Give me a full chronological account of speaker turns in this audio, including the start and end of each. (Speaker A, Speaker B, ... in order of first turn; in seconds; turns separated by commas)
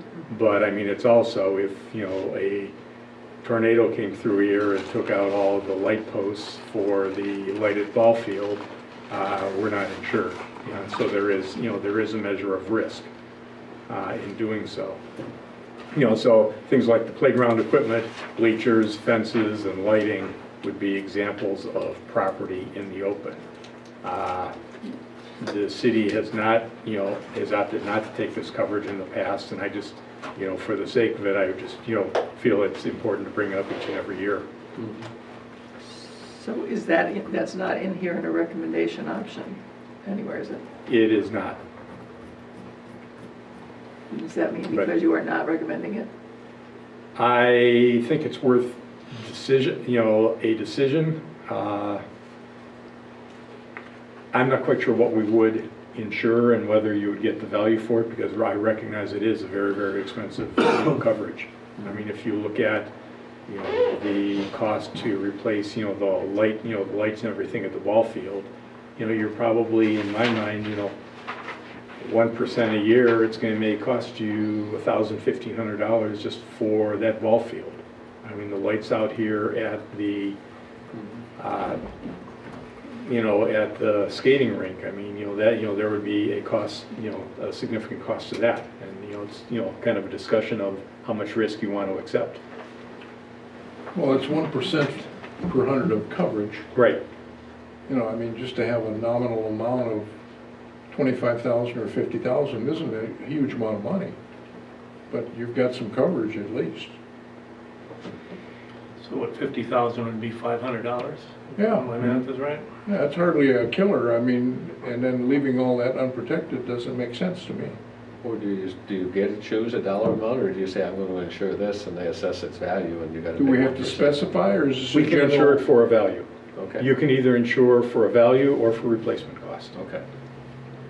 Speaker A: 0.3-2.7, Speaker A: 3.4-13.1, Speaker A: 13.9-15.0, Speaker A: 15.9-23.4, Speaker A: 24.0-24.5, Speaker A: 25.4-34.5, Speaker B: 34.8-35.0, Speaker C: 35.9-40.6, Speaker A: 40.9-41.6, Speaker C: 44.1-46.1, Speaker A: 47.1-52.0, Speaker A: 54.3-62.9, Speaker A: 63.5-70.9, Speaker A: 72.0-80.4, Speaker A: 81.4-81.8, Speaker A: 83.0-92.4, Speaker D: 93.9-96.7, Speaker A: 96.7-97.0, Speaker D: 97.9-100.1, Speaker D: 100.9-104.2, Speaker D: 105.1-106.9, Speaker E: 109.0-112.6, Speaker D: 111.5-112.2, Speaker D: 112.8-117.8, Speaker B: 118.2-124.2, Speaker D: 123.4-125.6, Speaker A: 124.9-126.3, Speaker B: 126.5-126.9, Speaker A: 126.8-129.7, Speaker B: 129.7-130.0